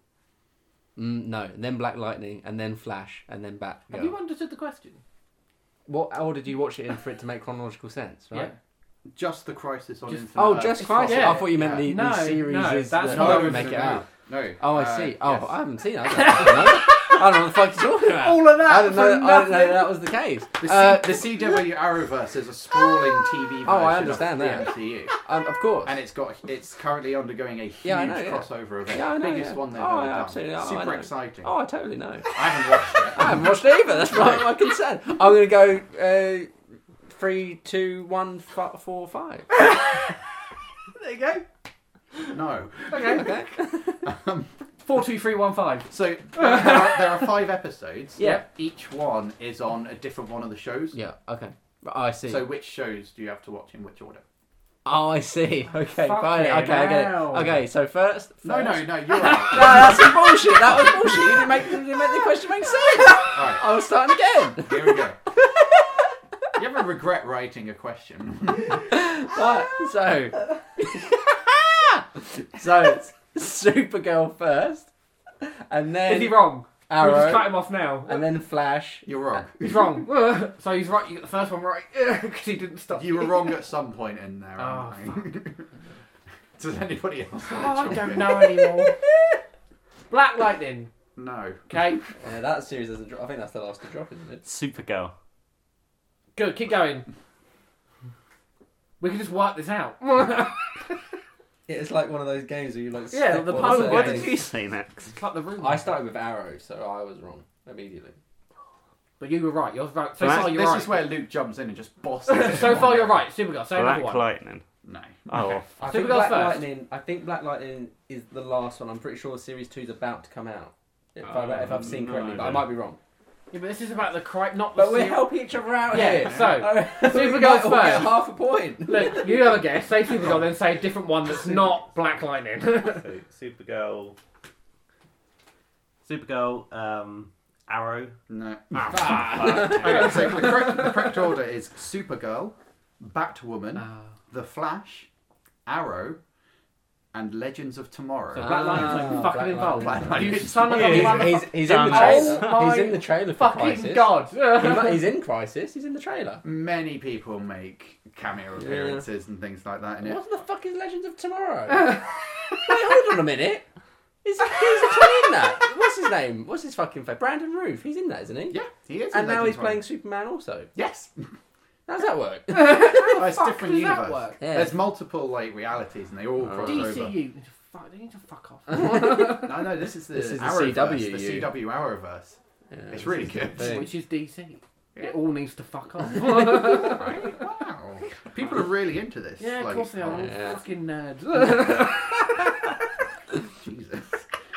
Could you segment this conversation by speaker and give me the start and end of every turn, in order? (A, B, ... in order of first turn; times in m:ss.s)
0:01.0-0:04.1 A
0:03.9-0:05.0 B
0:05.9-0:08.5 A
0:08.3-0:08.6 B
0:09.1-0:12.0 C
0:10.1-0:14.0 B
0:10.3-0:14.1 A
0:13.0-0:15.5 C
0:14.6-0:21.3 A
0:16.1-0:17.2 B
0:18.0-0:20.1 B
0:20.6-0:25.1 C
0:23.6-0:26.0 A
0:25.8-0:31.5 C
0:27.8-0:32.4 A
0:32.3-0:33.4 C
0:33.1-0:36.5 A
0:37.0-0:39.5 A
0:41.0-0:41.4 B
0:42.3-0:43.4 C
0:42.9-0:43.3 B
0:43.0-0:44.0 A
0:43.9-0:44.5 C
0:44.8-0:47.3 B
0:45.9-0:51.0 C
0:48.2-0:48.4 B
0:50.9-0:52.5 A
0:52.2-0:54.2 C
0:54.8-1:05.9 A
0:55.7-0:57.6 B
0:58.4-1:01.1 C
1:03.3-1:03.7 C
1:04.6-1:05.2 C
1:06.5-1:08.8 C
1:08.7-1:19.2 A
1:16.0-1:18.3 B
1:19.0-1:20.1 C
1:19.6-1:23.6 B
1:22.9-1:25.7 C
1:24.6-1:25.2 B
1:26.6-1:28.8 C
1:27.5-1:29.0 B
1:30.1-1:30.9 B
1:31.2-1:31.9 C
1:31.7-1:32.0 B
1:32.2-1:34.4 A
1:34.4-1:35.1 D
1:36.3-1:37.1 B
1:39.0-1:41.0 B
1:41.7-1:44.4 A
1:43.1-1:44.4 B
1:43.5-1:45.2 D
1:45.1-1:45.9 B
1:45.6-1:48.2 A
1:49.2-1:51.1 B
1:50.2-1:53.2 C
1:52.2-1:54.2 B
1:53.7-1:54.6 D
1:54.8-1:55.3 C
1:55.3-1:55.8 D
1:55.8-2:03.0 A
1:55.8-1:56.7 B
2:01.2-2:02.7 D
2:03.5-2:13.0 B
2:04.7-2:09.3 A
2:06.0-2:06.6 C
2:12.8-2:14.2 E
2:16.0-2:18.2 E
2:18.3-2:25.1 C
2:18.8-2:21.2 B
2:19.0-2:20.0 A
2:19.2-2:20.4 D
2:23.7-2:24.1 B
2:25.6-2:26.2 C
2:27.1-2:31.4 C
2:28.3-2:35.1 B
2:28.4-2:36.4 A
2:30.7-2:32.7 D
2:36.4-2:40.2 C
2:38.6-2:39.0 A
2:40.0-2:43.6 A
2:44.2-2:50.7 A
2:48.5-2:49.8 C
2:50.7-2:51.3 C
2:51.9-2:53.1 A
2:52.5-2:54.4 B
2:52.9-2:57.2 C
2:54.4-2:54.8 A
2:56.4-2:57.0 A
2:56.6-2:59.5 B
2:59.1-3:02.4 C
3:00.1-3:01.6 A
3:02.7-3:03.9 A
3:02.9-3:03.9 C
3:03.2-3:07.4 B
3:06.7-3:10.3 C
3:09.4-3:12.6 B
3:10.0-3:10.6 A
3:13.6-3:14.2 C